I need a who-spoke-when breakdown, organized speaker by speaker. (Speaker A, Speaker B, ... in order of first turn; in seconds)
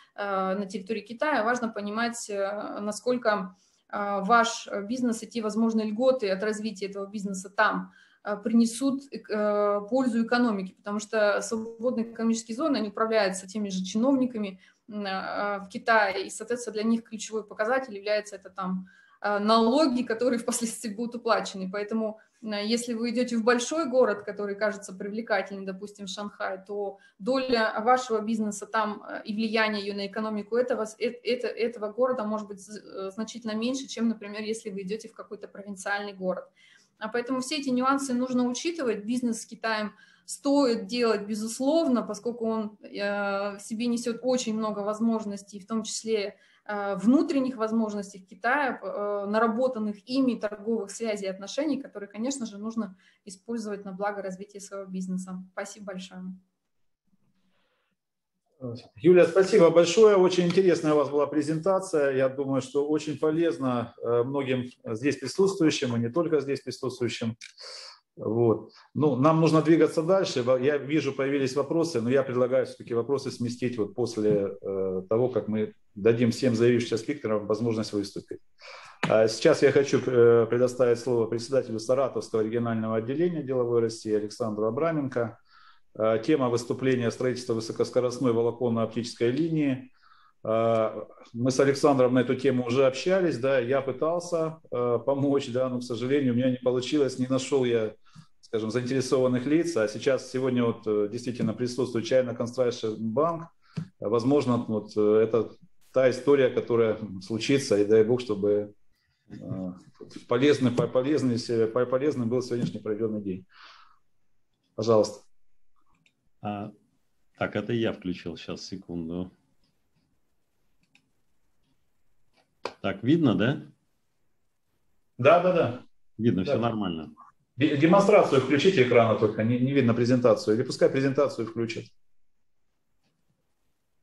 Speaker A: 0.2-56.4
Speaker B: 58.6-67.4, 68.2-78.4, 79.0-85.4, 86.0-89.9, 90.4-108.7, 109.4-113.5, 114.8-115.2, 125.2-125.8, 127.6-131.9
Speaker C: 116.4-116.7, 117.4-119.3, 122.8-123.7, 126.2-127.1